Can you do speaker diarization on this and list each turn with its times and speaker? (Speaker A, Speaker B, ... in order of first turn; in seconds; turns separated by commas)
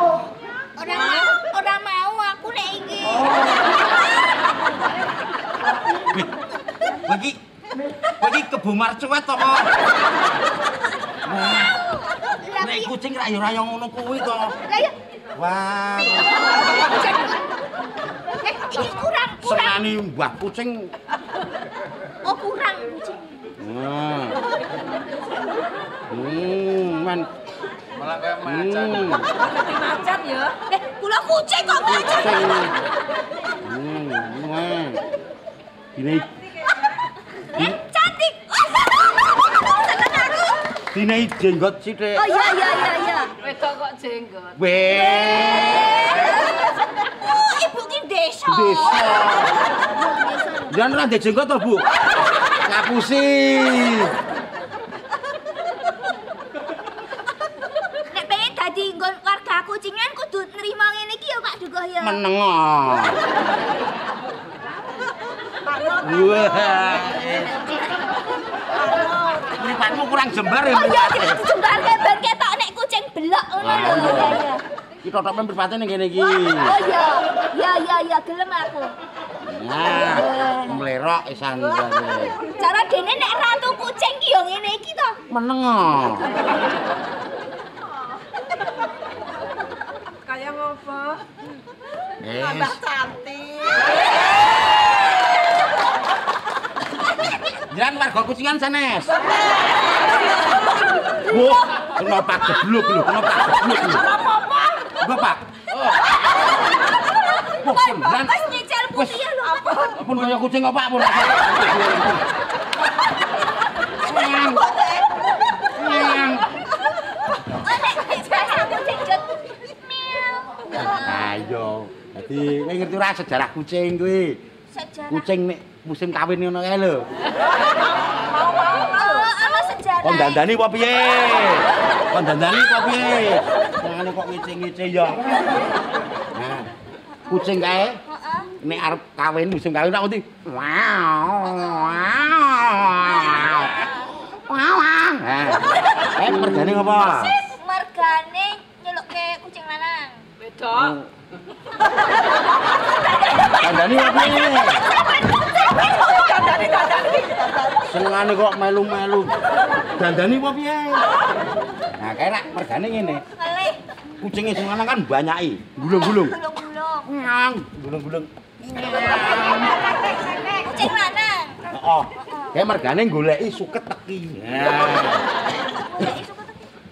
Speaker A: 0.8-4.0, Speaker B: 6.0-6.3, Speaker B: 7.0-7.4, Speaker B: 8.2-9.7, Speaker B: 11.2-11.8, Speaker A: 12.3-12.9, Speaker B: 12.6-14.5, Speaker A: 14.7-14.9, Speaker B: 15.4-16.3, Speaker A: 16.8-17.4, Speaker A: 18.4-19.8, Speaker B: 19.4-20.9, Speaker A: 22.2-23.2, Speaker B: 23.6-24.4, Speaker B: 26.1-27.3, Speaker B: 28.1-29.3, Speaker C: 30.0-30.3, Speaker A: 30.5-32.7, Speaker B: 31.9-32.8, Speaker B: 33.6-35.0, Speaker B: 36.0-36.3, Speaker A: 37.5-40.7, Speaker B: 40.9-42.3, Speaker A: 42.1-43.3, Speaker C: 43.6-44.5, Speaker B: 44.5-46.1, Speaker A: 44.9-49.2, Speaker B: 48.5-49.6, Speaker B: 50.6-51.9, Speaker B: 52.7-54.1, Speaker A: 58.1-62.2, Speaker B: 62.0-63.2, Speaker B: 65.9-67.7, Speaker B: 69.5-71.4, Speaker A: 70.7-74.6, Speaker B: 73.6-74.4, Speaker B: 75.0-76.8, Speaker A: 76.2-78.9, Speaker B: 79.5-82.4, Speaker A: 80.0-80.8, Speaker A: 82.5-85.2, Speaker B: 85.3-86.3, Speaker C: 90.4-91.0, Speaker B: 92.2-92.9, Speaker C: 93.1-93.4, Speaker B: 97.5-99.2, Speaker B: 101.2-104.2, Speaker B: 105.0-105.4, Speaker A: 107.1-110.0, Speaker B: 107.6-108.4, Speaker B: 108.9-109.2, Speaker B: 109.9-112.2, Speaker B: 114.0-114.7, Speaker A: 114.5-115.1, Speaker B: 115.8-116.5, Speaker A: 117.4-121.3, Speaker B: 120.8-124.4, Speaker A: 124.7-125.3, Speaker B: 125.1-127.1, Speaker A: 128.6-130.4, Speaker B: 130.0-135.7, Speaker B: 136.3-136.7, Speaker B: 137.3-138.0, Speaker A: 138.1-138.5, Speaker B: 138.6-143.9, Speaker B: 144.5-147.4, Speaker A: 147.1-150.3, Speaker B: 150.6-151.1, Speaker A: 152.8-157.0, Speaker B: 153.6-154.8, Speaker B: 157.8-159.4, Speaker B: 159.9-161.1, Speaker B: 162.0-163.2, Speaker A: 163.3-163.8, Speaker B: 164.2-166.4, Speaker A: 165.8-167.1, Speaker B: 167.1-169.9, Speaker A: 170.4-171.6, Speaker B: 171.7-175.3, Speaker A: 172.2-172.6, Speaker A: 175.6-176.7